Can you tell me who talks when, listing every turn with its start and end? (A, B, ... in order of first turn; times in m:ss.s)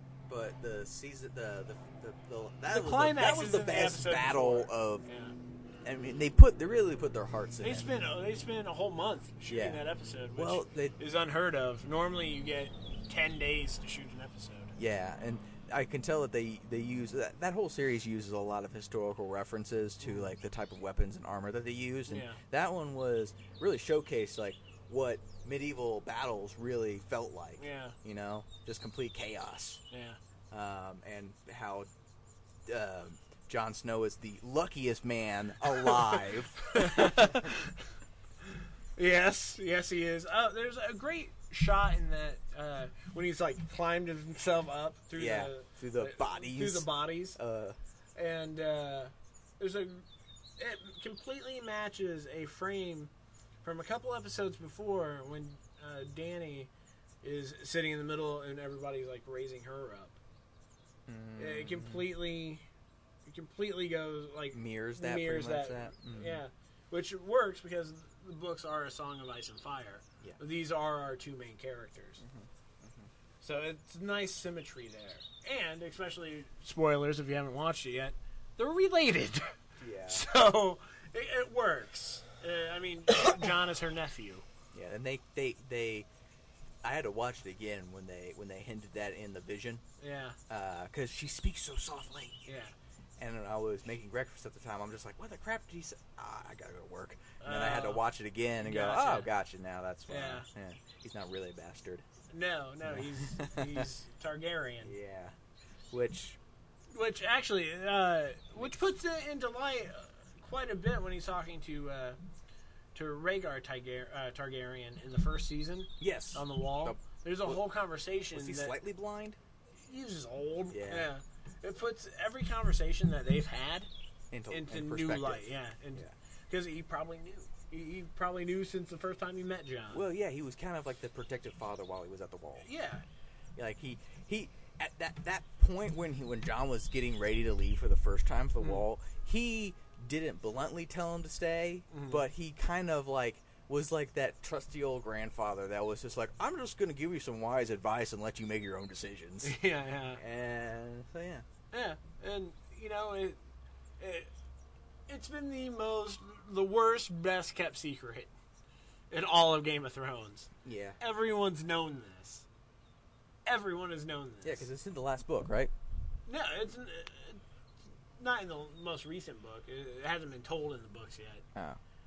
0:00.3-0:05.1 A
0:02.7-0:05.3 B
0:05.8-0:07.9 A
0:07.6-0:14.8 B
0:09.5-0:09.8 A
0:10.4-0:11.0 A
0:14.8-0:29.8 A
0:20.0-0:20.3 B
0:22.1-0:22.4 B
0:27.6-0:28.0 B
0:29.9-0:30.2 B
0:30.5-0:31.9 A
0:32.7-0:37.4 A
0:36.7-0:37.8 B
0:39.0-0:47.4 B
0:45.2-0:47.8 A
0:48.2-0:50.1 B
0:50.6-0:53.1 B
0:53.6-0:56.7 B
0:57.2-1:00.2 B
1:01.1-1:02.1 A
1:01.4-1:02.6 B
1:03.3-1:12.2 B
1:04.5-1:06.4 A
1:12.2-1:13.1 A
1:13.4-1:19.5 B
1:19.8-1:20.2 A
1:20.1-1:24.4 B
1:24.7-1:26.1 A
1:26.8-1:29.8 A
1:30.0-1:30.4 B
1:30.5-1:32.4 A
1:32.5-1:32.7 B
1:33.2-1:42.0 A
1:37.4-1:38.0 B
1:38.6-1:39.3 B
1:40.1-1:40.5 B
1:42.3-1:44.9 B
1:42.8-1:43.9 A
1:44.8-1:45.3 A
1:45.9-1:46.4 A
1:46.9-1:52.2 B
1:53.0-1:58.8 B
1:56.0-1:57.6 A
1:58.3-1:59.4 A
1:59.8-2:03.9 B
2:00.7-2:01.1 A
2:04.3-2:06.1 A
2:04.5-2:10.0 B
2:09.9-2:12.7 A
2:12.6-2:13.0 B
2:13.6-2:29.6 A
2:21.9-2:22.2 B
2:29.4-2:30.2 B
2:30.2-2:31.4 A
2:31.7-2:33.4 B
2:34.0-2:34.3 B
2:35.1-2:38.3 B
2:39.1-2:40.5 B
2:40.6-2:41.0 A
2:41.0-2:42.4 B
2:43.5-2:44.7 B
2:44.4-2:45.7 A
2:46.3-2:47.4 B
2:48.2-2:51.4 B